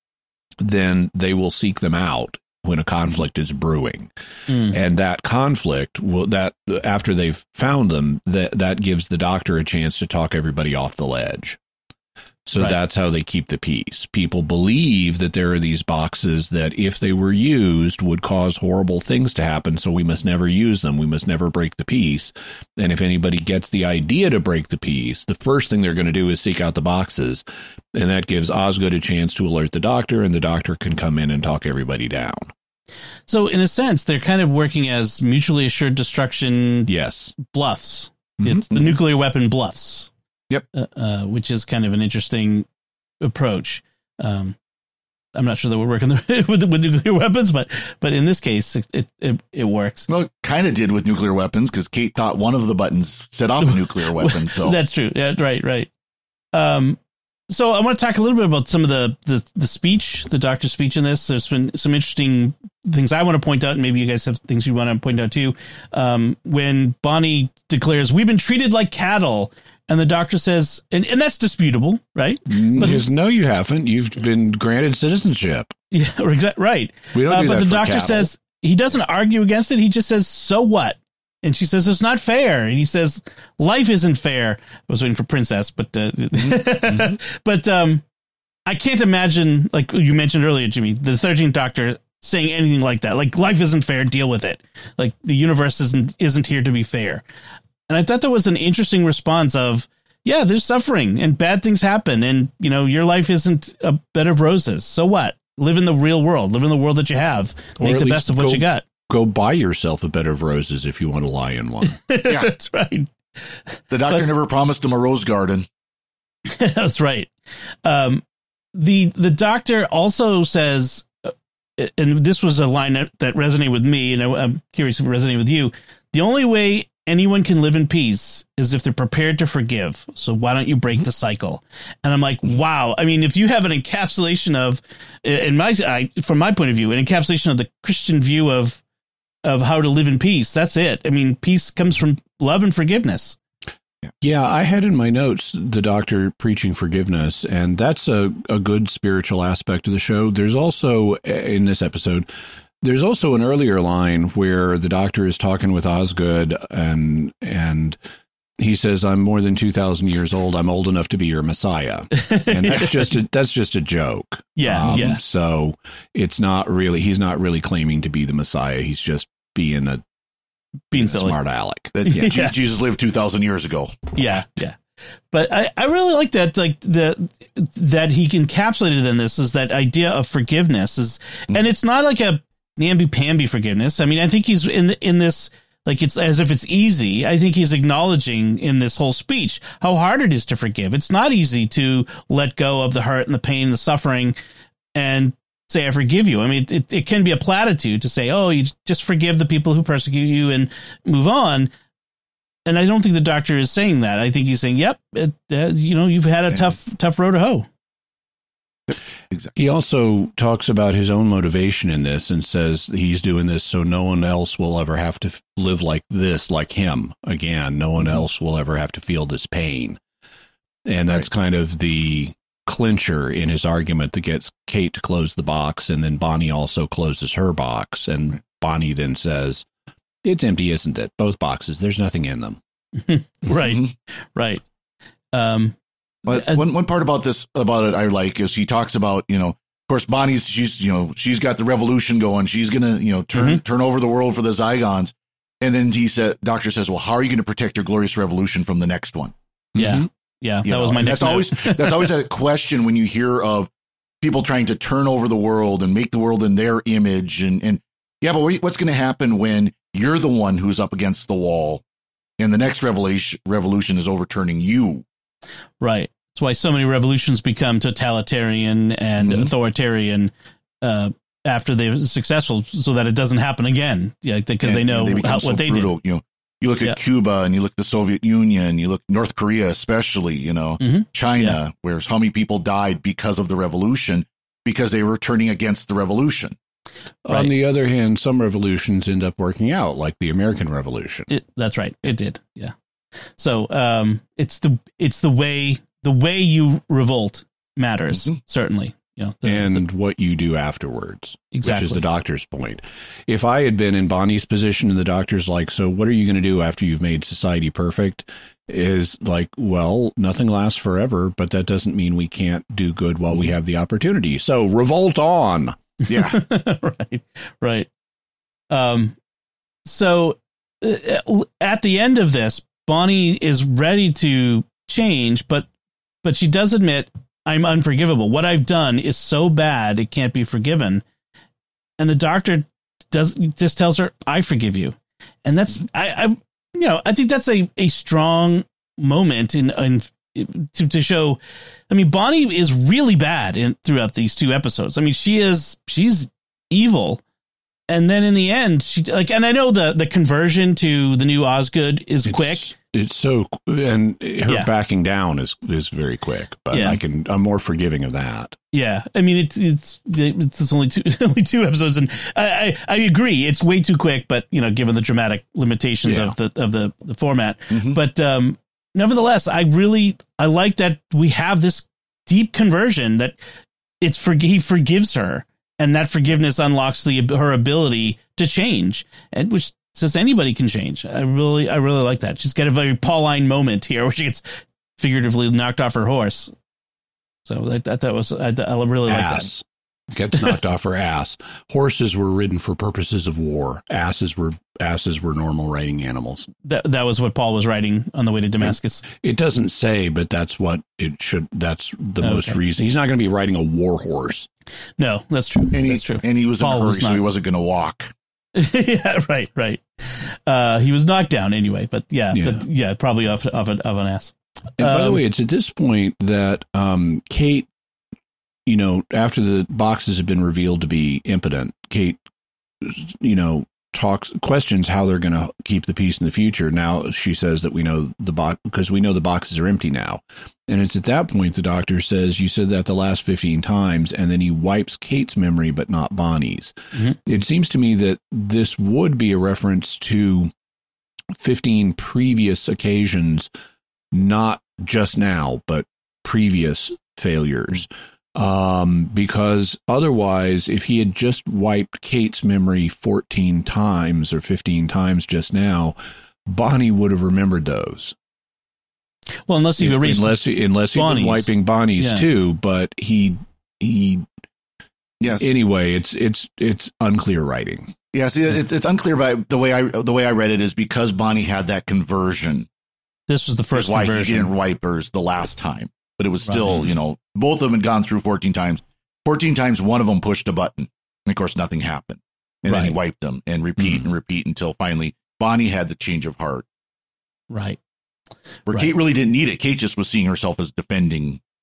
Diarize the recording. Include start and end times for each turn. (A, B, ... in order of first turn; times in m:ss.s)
0:00.6-0:04.1 A
0:04.5-0:04.8 B
0:04.6-0:11.6 A
0:12.5-0:32.5 A
0:33.3-0:40.1 B
0:36.9-0:37.4 A
0:40.7-0:42.7 B
0:43.2-0:44.6 B
0:45.4-0:50.1 B
0:50.1-0:54.8 C
0:53.6-0:55.9 B
0:56.5-0:57.0 B
0:57.5-1:13.0 B
1:12.5-1:15.8 A
1:15.9-1:28.0 B
1:17.1-1:18.3 A
1:28.7-1:37.2 B
1:37.9-1:48.8 B
1:47.8-1:52.0 A
1:52.0-1:53.1 B
1:52.3-1:52.5 C
1:53.9-1:55.7 C
1:56.5-1:57.3 B
1:57.8-2:18.8 B
2:19.4-2:23.4 B
2:24.2-2:32.3 A
2:32.8-2:38.0 A
2:38.6-2:50.0 A
2:42.1-2:42.9 B
2:44.6-2:45.2 B
2:50.9-2:51.9 A
2:50.9-2:51.4 B
2:51.9-2:54.2 C
2:52.1-2:52.5 B
2:54.2-2:54.8 B
2:55.3-3:14.4 B
3:15.0-3:21.7 B
3:22.7-3:27.7 B
3:28.9-3:29.5 C
3:29.6-3:40.0 A
3:40.9-3:49.7 A
3:50.2-3:52.6 A
3:53.1-3:54.6 B
3:53.7-3:53.9 C
3:55.3-3:55.8 B
3:56.3-4:09.4 C
3:56.3-3:56.6 B
4:03.4-4:03.6 B
4:09.8-4:10.0 A
4:09.8-4:12.1 B
4:10.6-4:13.7 C
4:14.2-4:21.8 C
4:22.4-4:25.0 C
4:25.8-4:35.9 B
4:29.2-4:29.5 C
4:34.6-4:46.6 C
4:40.8-4:41.6 B
4:47.2-4:51.3 A
4:51.3-4:52.7 B
4:53.4-4:59.8 B
4:59.4-5:15.8 A
5:01.5-5:02.0 B
5:16.0-5:17.9 B
5:16.1-5:16.4 C
5:18.7-5:19.2 B
5:19.8-5:25.7 B
5:26.2-5:31.0 B
5:32.0-5:47.2 B
5:47.9-5:52.7 B
5:52.2-5:58.6 A
5:56.7-5:57.0 B
5:58.7-6:13.4 B
6:06.0-6:06.4 A
6:07.7-6:08.0 C
6:14.0-6:24.4 B
6:25.0-6:26.5 B
6:27.4-6:29.5 B
6:29.1-6:36.5 A
6:36.6-6:39.0 B
6:39.2-6:44.5 A
6:42.2-6:42.6 B
6:45.0-6:47.2 B
6:45.7-6:48.1 C
6:48.6-6:55.2 B
6:52.3-6:52.6 A
6:54.8-6:57.7 A
6:58.7-7:02.2 A
7:02.8-7:20.5 A
7:21.4-7:23.5 A
7:24.1-7:38.2 A
7:39.5-7:42.3 B
7:39.8-7:44.3 A
7:45.2-7:45.5 C
7:45.4-7:47.9 A
7:48.1-7:52.7 C
7:53.3-7:54.5 B
7:53.7-8:06.7 C
7:56.5-7:56.9 B
8:02.7-8:03.0 B
8:07.5-8:07.8 B
8:08.7-8:11.4 C